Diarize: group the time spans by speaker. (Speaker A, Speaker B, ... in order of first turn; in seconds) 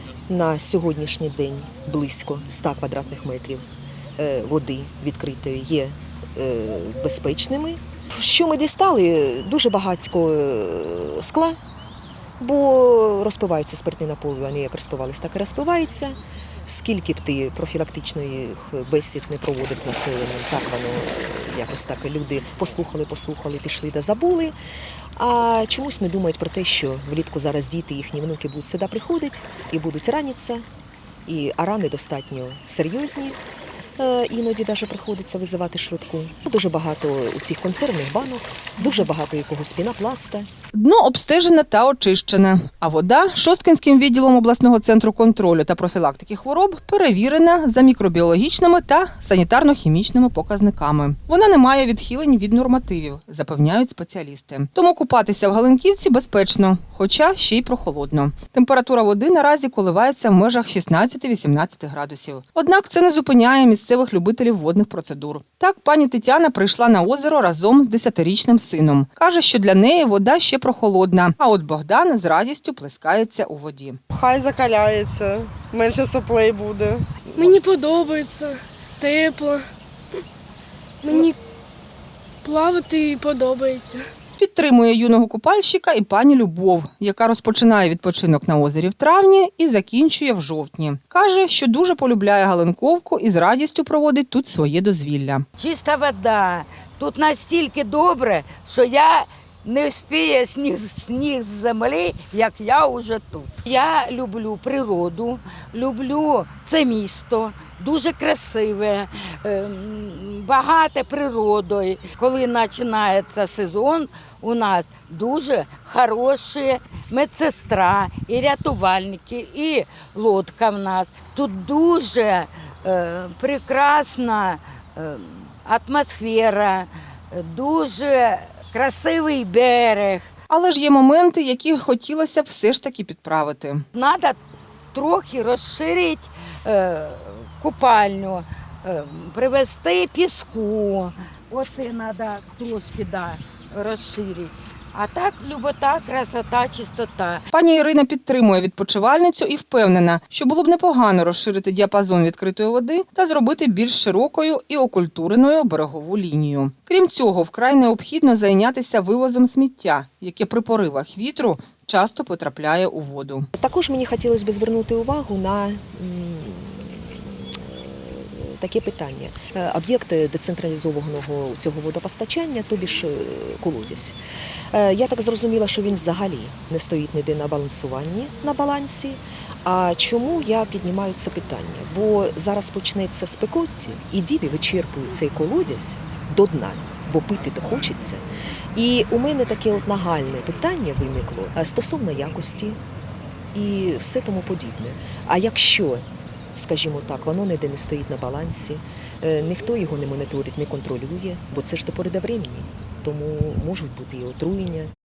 Speaker A: 0.3-3.7, 4.2-11.6, 12.4-24.5, 25.1-30.6, 31.3-33.4, 34.0-40.5, 163.6-174.2, 174.7-192.8, 193.5-204.9
Speaker B: 40.7-74.0, 84.4-95.5, 130.5-133.8, 147.5-163.5
Speaker C: 74.1-77.5
Speaker D: 77.4-79.7, 82.4-84.1
Speaker E: 95.6-130.3, 133.9-134.4, 134.9-147.5